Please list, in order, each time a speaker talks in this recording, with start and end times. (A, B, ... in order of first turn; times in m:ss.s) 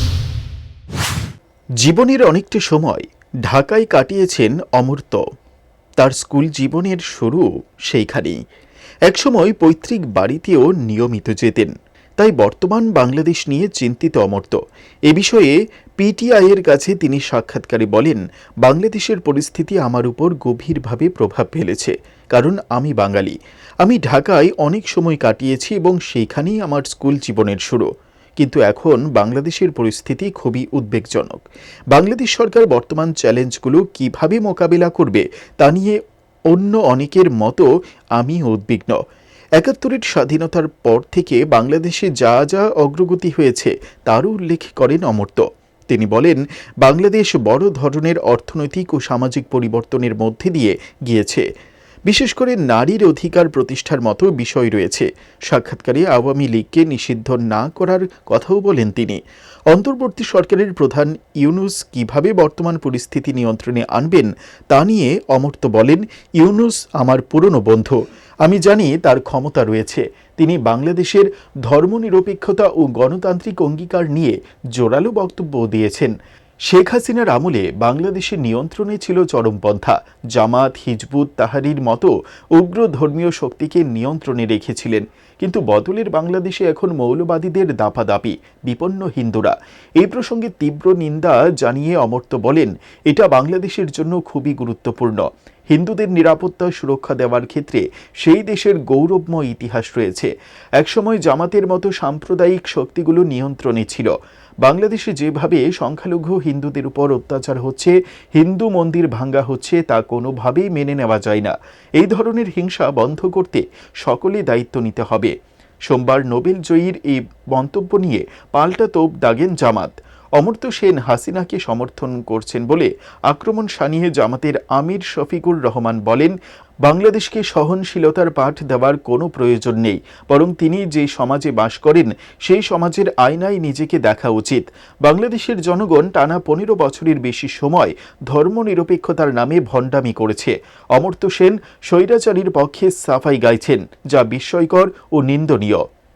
0:01.8-0:05.2 A
0:06.0-0:08.4 A
0:09.0-0:39.0 A
0:39.6-0:51.4 A
0:52.0-1:16.1 A
1:16.7-1:44.1 A
1:44.6-1:55.3 A
1:55.9-2:25.8 A